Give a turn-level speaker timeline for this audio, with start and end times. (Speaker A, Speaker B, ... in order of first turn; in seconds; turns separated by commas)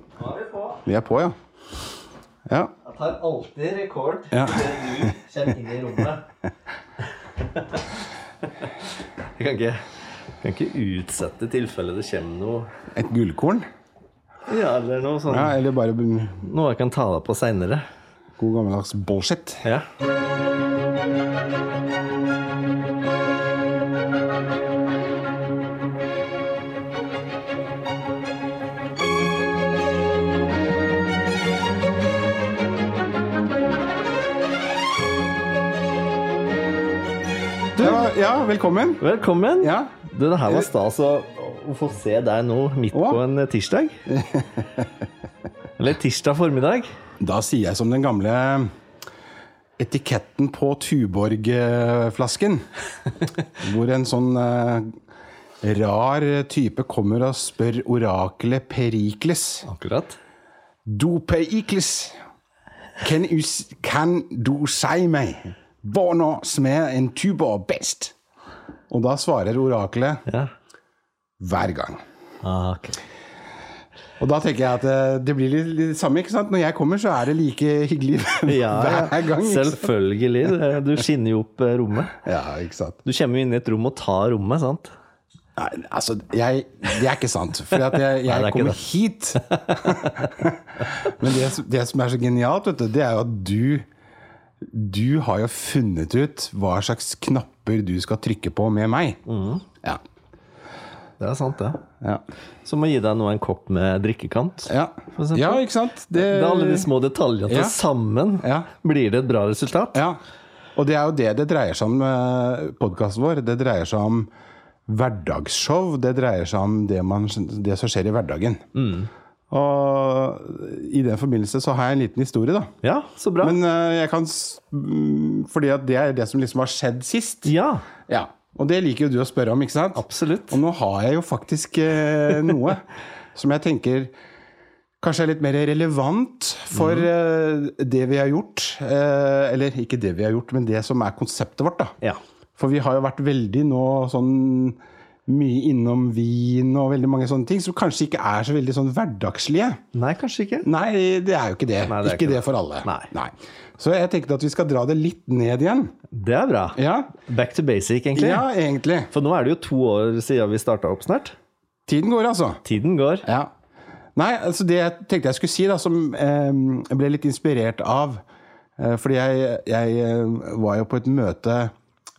Speaker A: 0.2-0.8, Speaker B: 0.8-1.4, Speaker A: 2.8-6.3, Speaker B: 4.3-5.1, Speaker A: 7.3-8.7, Speaker A: 9.3-12.7, Speaker B: 12.9-13.7, Speaker A: 14.5-15.6, Speaker B: 15.3-16.4, Speaker A: 16.4-17.8, Speaker B: 18.4-19.6, Speaker B: 37.8-39.0, Speaker A: 37.8-38.1, Speaker A: 39.0-44.0, Speaker B: 39.6-39.9, Speaker B: 42.9-43.2, Speaker B: 44.1-44.9, Speaker A: 45.8-46.9, Speaker B: 47.2-48.7, Speaker B: 49.8-52.7, Speaker B: 53.5-55.0, Speaker B: 55.6-59.6, Speaker A: 59.6-60.2, Speaker B: 60.9-62.1, Speaker B: 63.0-68.1, Speaker B: 68.9-70.2, Speaker A: 70.3-70.5, Speaker B: 71.4-72.0, Speaker A: 72.4-73.0, Speaker B: 74.2-79.9, Speaker A: 78.4-82.2, Speaker B: 82.2-83.0, Speaker A: 83.0-84.9, Speaker B: 85.6-93.8, Speaker A: 87.9-88.9, Speaker A: 89.5-90.3, Speaker B: 94.6-99.2, Speaker A: 99.3-99.6, Speaker A: 101.2-101.8, Speaker A: 102.6-110.0, Speaker B: 104.7-106.9, Speaker B: 107.5-107.8, Speaker B: 108.4-108.7, Speaker B: 109.9-110.2, Speaker B: 110.8-114.3, Speaker B: 114.9-118.6, Speaker A: 118.7-119.1, Speaker B: 119.5-122.7, Speaker A: 122.8-123.6, Speaker B: 123.4-127.5, Speaker A: 127.4-127.8, Speaker B: 128.1-134.1, Speaker A: 129.9-130.6, Speaker B: 135.0-141.9, Speaker A: 136.7-137.1, Speaker B: 142.6-149.8, Speaker A: 149.9-150.7, Speaker B: 150.6-155.9, Speaker A: 151.9-153.1, Speaker A: 156.1-158.4, Speaker B: 156.7-157.1, Speaker B: 158.1-159.1, Speaker A: 159.1-161.3, Speaker B: 161.9-162.6, Speaker A: 162.6-163.2, Speaker B: 163.2-163.5, Speaker B: 164.2-168.2, Speaker B: 168.8-171.7